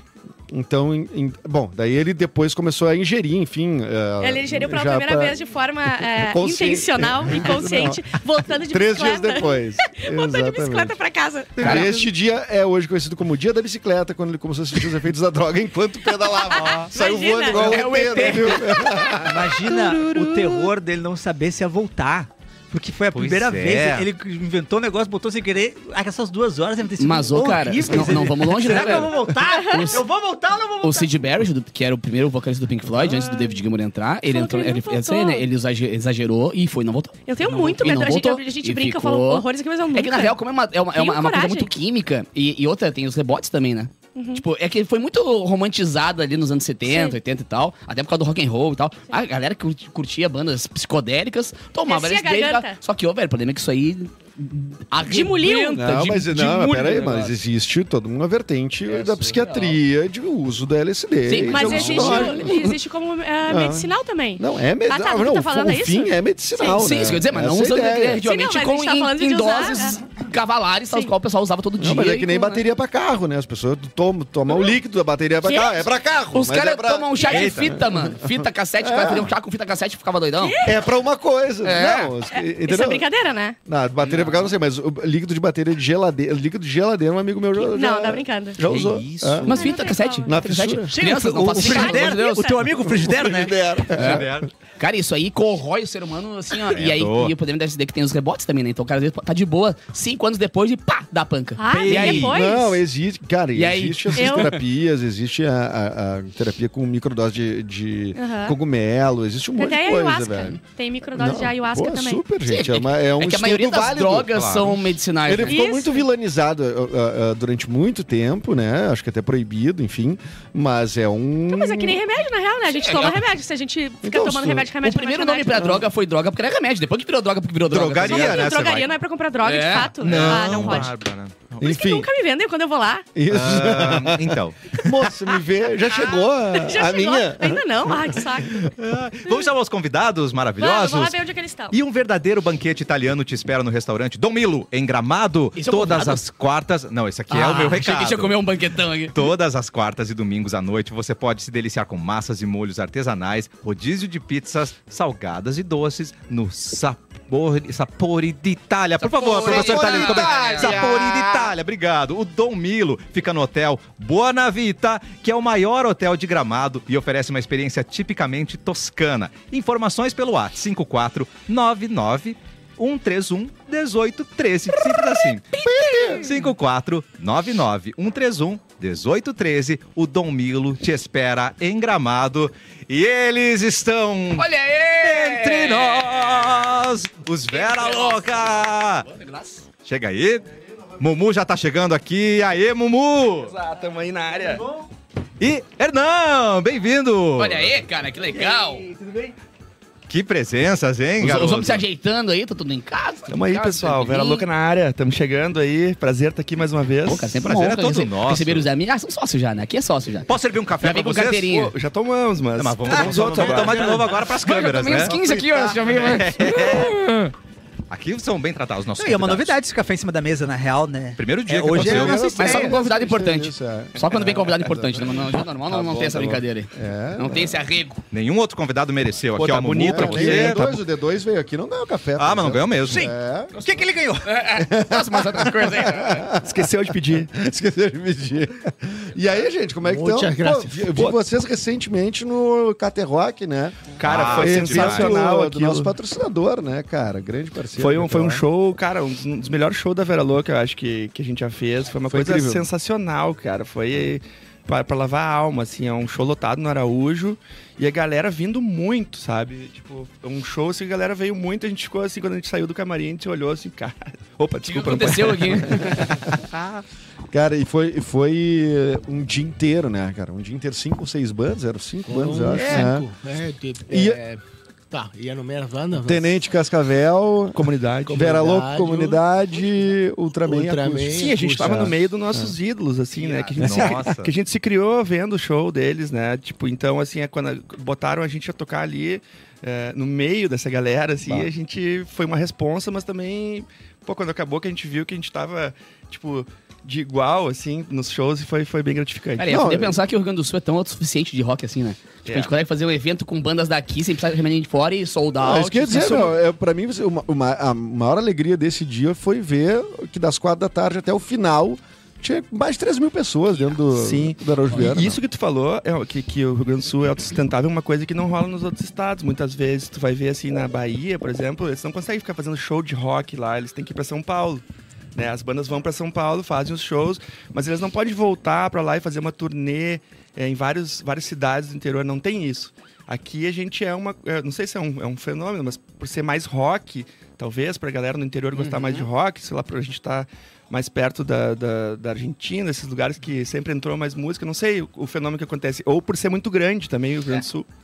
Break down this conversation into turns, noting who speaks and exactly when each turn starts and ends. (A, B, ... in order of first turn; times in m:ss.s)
0:00.5-0:11.0 A
0:04.2-0:11.9 B
0:11.6-0:19.7 A
0:11.6-0:12.0 C
0:16.1-0:19.2 B
0:16.5-0:16.9 D
0:17.5-0:18.8 C
0:19.2-0:31.1 E
0:23.1-0:24.1 D
0:27.0-0:30.1 C
0:29.5-0:30.0 B
0:30.8-0:57.4 C
0:33.0-0:33.6 B
0:34.2-0:35.4 B
0:37.3-0:40.4 B
0:37.5-0:37.8 E
0:40.9-0:41.7 B
0:44.1-0:44.4 B
0:46.8-0:47.2 B
0:51.9-0:52.8 B
0:55.0-0:55.9 B
0:55.8-1:02.7 A
0:58.9-0:59.8 C
1:01.3-1:02.7 C
1:01.5-1:06.8 B
1:03.5-1:08.2 A
1:06.6-1:12.6 C
1:08.2-1:10.0 B
1:11.8-1:17.2 A
1:15.4-1:15.9 B
1:16.3-1:20.6 C
1:17.1-1:17.6 B
1:17.3-1:17.8 D
1:17.7-1:19.3 A
1:20.4-1:20.8 B
1:20.6-1:23.1 A
1:21.6-1:22.1 C
1:22.4-1:23.6 B
1:23.6-1:29.5 A
1:24.0-1:24.5 D
1:27.5-1:28.6 B
1:28.6-1:29.6 D
1:29.4-1:30.4 B
1:29.5-1:32.6 C
1:30.2-1:30.9 A
1:30.9-1:33.6 E
1:31.5-1:32.8 B
1:32.8-1:34.4 A
1:33.9-1:34.3 C
1:34.0-1:34.5 D
1:34.8-1:42.3 C
1:36.7-1:37.4 D
1:41.6-1:42.8 B
1:41.7-1:42.3 D
1:42.1-1:50.6 A
1:43.6-1:44.6 C
1:44.1-1:44.5 B
1:48.1-1:48.6 B
1:49.6-1:52.2 B
1:51.1-1:54.5 A
1:52.4-1:55.6 C
1:54.4-1:54.8 D
1:55.2-2:02.0 A
1:55.5-1:56.1 B
2:01.5-2:05.8 B
2:02.6-2:03.2 C
2:04.0-2:04.7 A
2:04.8-2:08.5 C
2:07.7-2:08.9 D
2:08.0-2:11.0 B
2:08.1-2:08.4 A
2:09.4-2:10.8 C
2:10.0-2:11.6 D
2:11.6-2:12.1 A
2:11.6-2:13.1 B
2:13.2-2:18.7 A
2:13.3-2:15.0 D
2:15.9-2:18.6 B
2:18.6-2:21.2 D
2:20.6-2:21.8 B
2:21.7-2:28.4 D
2:25.6-2:26.2 C
2:27.3-2:29.3 C
2:29.1-2:55.5 D
2:39.0-2:40.8 C
2:39.4-2:41.5 A
2:55.1-2:56.3 C
2:55.6-2:56.3 A
2:56.1-3:09.1 D
3:04.4-3:06.4 C
3:07.5-3:09.6 C
3:09.8-3:10.4 D
3:11.0-3:13.5 D
3:13.4-3:14.7 F
3:15.4-3:17.7 D
3:17.4-3:18.9 C
3:18.6-3:19.2 E
3:20.1-3:21.8 D
3:21.2-3:24.4 C
3:23.3-3:27.4 F
3:27.0-3:30.3 C
3:27.4-3:28.7 D
3:30.3-3:31.6 D
3:30.8-3:31.7 C
3:31.5-3:34.1 F
3:32.6-3:37.1 D
3:33.5-3:34.1 E
3:33.9-3:37.3 C
3:35.2-3:35.4 A
3:37.9-3:39.6 D
3:39.0-3:42.8 E
3:41.2-3:42.3 D
3:41.7-3:47.6 A
3:42.2-3:48.0 C
3:48.1-3:50.8 D
3:49.4-3:50.7 F
3:49.8-3:53.6 A
3:52.2-3:53.1 D
3:52.9-3:54.4 E
3:54.2-3:56.3 C
3:54.5-3:56.6 A
3:56.4-3:57.3 F
3:57.3-4:08.4 A
3:59.8-4:01.0 G
4:04.0-4:05.2 D
4:04.0-4:05.9 F
4:07.8-4:26.0 F
4:12.1-4:12.7 A
4:24.6-4:26.2 C
4:27.3-4:33.1 A
4:32.1-4:34.4 G
4:33.9-4:34.2 A
4:34.9-4:36.4 G
4:36.0-4:42.5 A
4:37.6-4:38.4 F
4:38.1-4:39.2 G
4:40.4-4:42.0 G
4:41.1-4:59.7 F
4:43.5-4:44.3 D
4:43.6-4:43.9 A
4:51.2-4:51.5 A
4:59.4-5:06.4 C
4:59.5-5:00.0 A
5:02.3-5:02.5 F
5:05.4-5:15.2 A
5:13.9-5:24.6 F
5:25.2-5:47.7 F
5:38.6-5:39.1 C